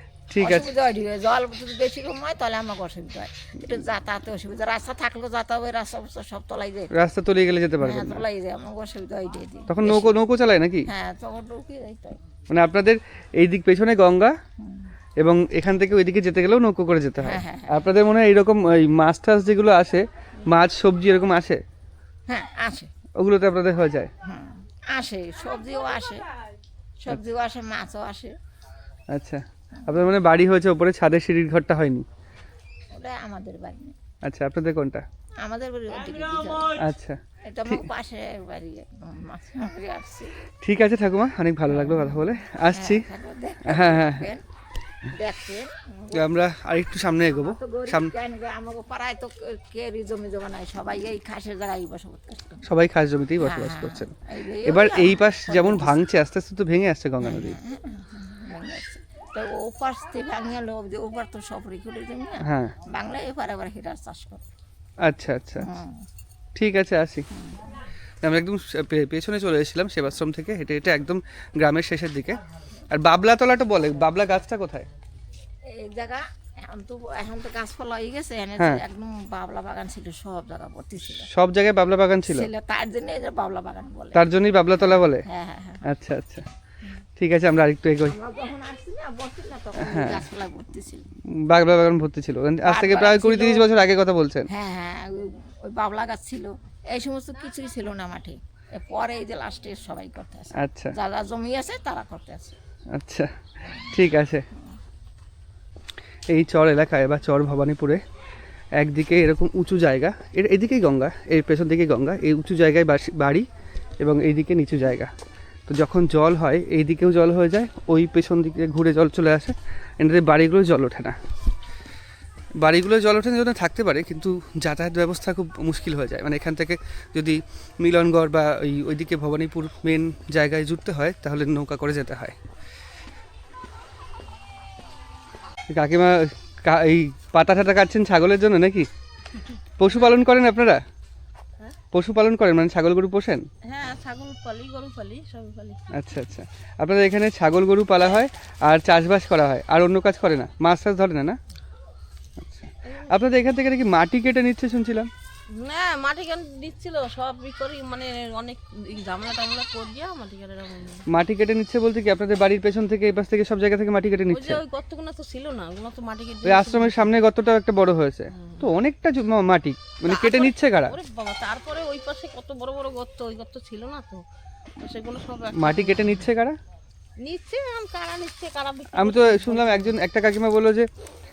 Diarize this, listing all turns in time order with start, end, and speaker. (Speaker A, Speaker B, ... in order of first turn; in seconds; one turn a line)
Speaker A: 0.3-0.7
Speaker B: 0.4-6.9
Speaker A: 6.9-8.3
Speaker B: 7.8-10.2
Speaker A: 9.7-10.9
Speaker B: 10.9-12.2
Speaker A: 12.5-14.4
Speaker B: 14.6-14.9
Speaker A: 15.2-21.6
Speaker B: 17.2-17.9
Speaker B: 22.3-22.9
Speaker A: 23.2-24.1
Speaker B: 24.2-26.3
Speaker B: 27.0-28.4
Speaker A: 29.1-32.1
Speaker B: 32.9-34.0
Speaker A: 34.2-35.0
Speaker B: 35.4-36.8
Speaker A: 36.8-37.9
Speaker B: 37.5-40.4
Speaker A: 40.6-43.1
Speaker B: 41.8-44.4
Speaker A: 43.7-44.3
Speaker B: 45.1-46.3
Speaker A: 46.1-48.1
Speaker B: 47.3-52.6
Speaker A: 52.7-54.1
Speaker B: 53.4-56.0
Speaker A: 54.6-57.6
Speaker B: 57.2-64.4
Speaker A: 62.4-62.8
Speaker A: 65.0-65.7
Speaker B: 65.6-66.0
Speaker A: 66.6-67.3
Speaker A: 68.2-72.4
Speaker A: 72.9-74.9
Speaker B: 75.7-81.3
Speaker A: 78.6-78.8
Speaker A: 81.3-82.5
Speaker B: 82.2-85.8
Speaker A: 84.2-85.3
Speaker A: 85.8-86.5
Speaker A: 87.2-88.2
Speaker B: 88.0-91.1
Speaker A: 89.8-90.3
Speaker A: 91.3-94.5
Speaker B: 92.7-93.7
Speaker B: 94.5-102.6
Speaker A: 100.6-100.9
Speaker A: 102.9-104.5
Speaker A: 106.3-108.0
Speaker A: 108.8-113.5
Speaker A: 114.0-115.1
Speaker A: 115.7-121.2
Speaker A: 122.6-132.4
Speaker A: 135.7-138.9
Speaker A: 139.8-140.8
Speaker A: 141.9-143.5
Speaker C: 143.6-145.8
Speaker A: 145.9-151.4
Speaker A: 152.4-155.1
Speaker C: 152.8-153.1
Speaker C: 155.5-161.0
Speaker A: 161.1-164.6
Speaker C: 164.3-167.1
Speaker A: 166.4-171.0
Speaker C: 168.4-168.7
Speaker C: 170.0-174.2
Speaker C: 174.8-176.2
Speaker A: 175.6-176.6
Speaker C: 177.2-180.0
Speaker A: 178.9-180.9